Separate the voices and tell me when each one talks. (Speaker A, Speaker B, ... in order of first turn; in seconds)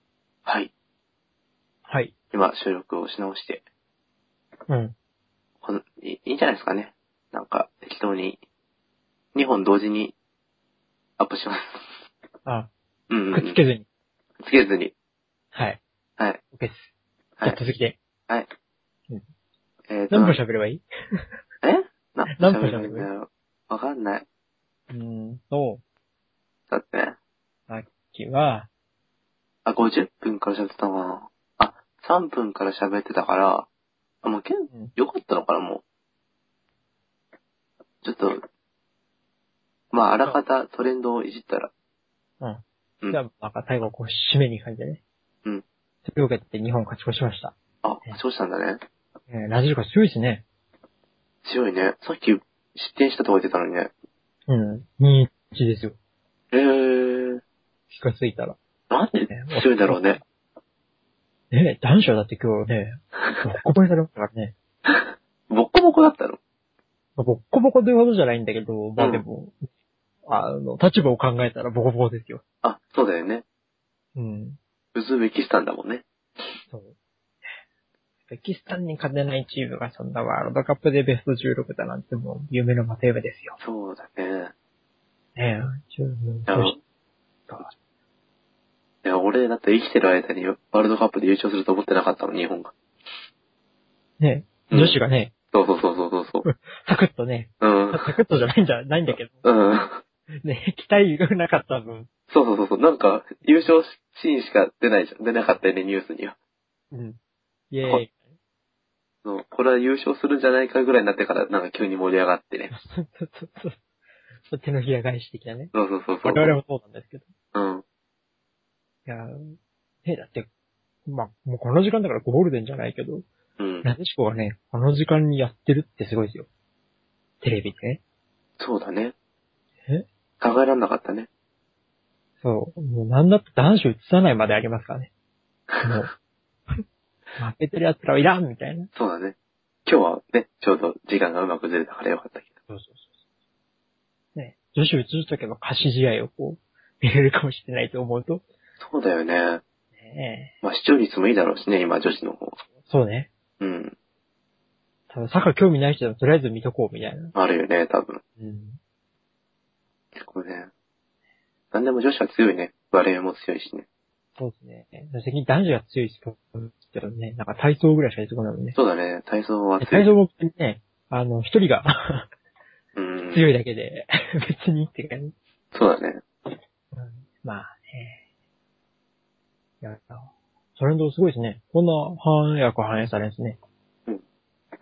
Speaker A: 0.5-0.7, 2.3-3.6, 5.6-8.4, 9.3-10.1, 11.2-11.8, 13.1-13.6, 14.4-14.9, 19.9-20.4, 21.6-24.2, 26.7-27.2, 29.6-33.7, 34.2-35.8, 38.0-38.4, 39.9-41.7, 47.8-48.8, 51.4-53.9, 56.5-57.4, 58.9-60.2, 64.9-66.4, 69.0-69.2, 72.6-73.4, 74.9-76.0, 83.6-84.5, 86.5-86.8, 89.0-92.7, 94.7-95.0, 95.5-96.5, 97.6-98.2, 99.1-100.0, 102.3-106.3, 109.2-112.7, 115.7-116.5, 117.5-117.8, 123.6-123.9, 128.6-129.1, 130.4-131.3, 138.9-142.5, 148.8-149.6, 150.6-152.6, 153.6-153.9, 157.3-158.2, 160.2-160.7, 161.7-163.8, 168.7-170.1, 172.9-173.5, 175.7-176.2
Speaker B: 1.9-2.1, 4.7-4.9, 12.4-12.7, 13.3-13.8, 15.5-15.8, 16.5-16.9, 17.4-18.0, 20.1-21.2, 22.3-23.1, 24.9-25.8, 27.7-28.7, 34.7-34.9, 42.4-45.0, 46.0-47.5, 49.3-50.4, 54.5-56.0, 57.9-58.6, 59.3-60.2, 61.5-64.5, 67.2-69.7, 70.2-72.4, 74.2-74.6, 76.7-77.0, 78.3-83.6, 85.3-86.8, 94.2-95.3, 96.4-99.4, 100.4-102.1, 106.9-107.2, 107.7-108.3, 112.7-113.8, 114.5-115.7, 116.2-117.3, 119.0-120.5, 121.0-123.2, 123.8-126.5, 127.4-128.0, 132.4-135.1, 135.8-136.1, 137.4-138.9, 142.7-143.1, 144.3-148.4, 150.0-150.5, 152.8-153.3, 155.1-157.3, 158.4-158.8, 164.4-168.8, 169.8-172.3, 173.3-175.3, 176.9-178.2, 179.8-183.6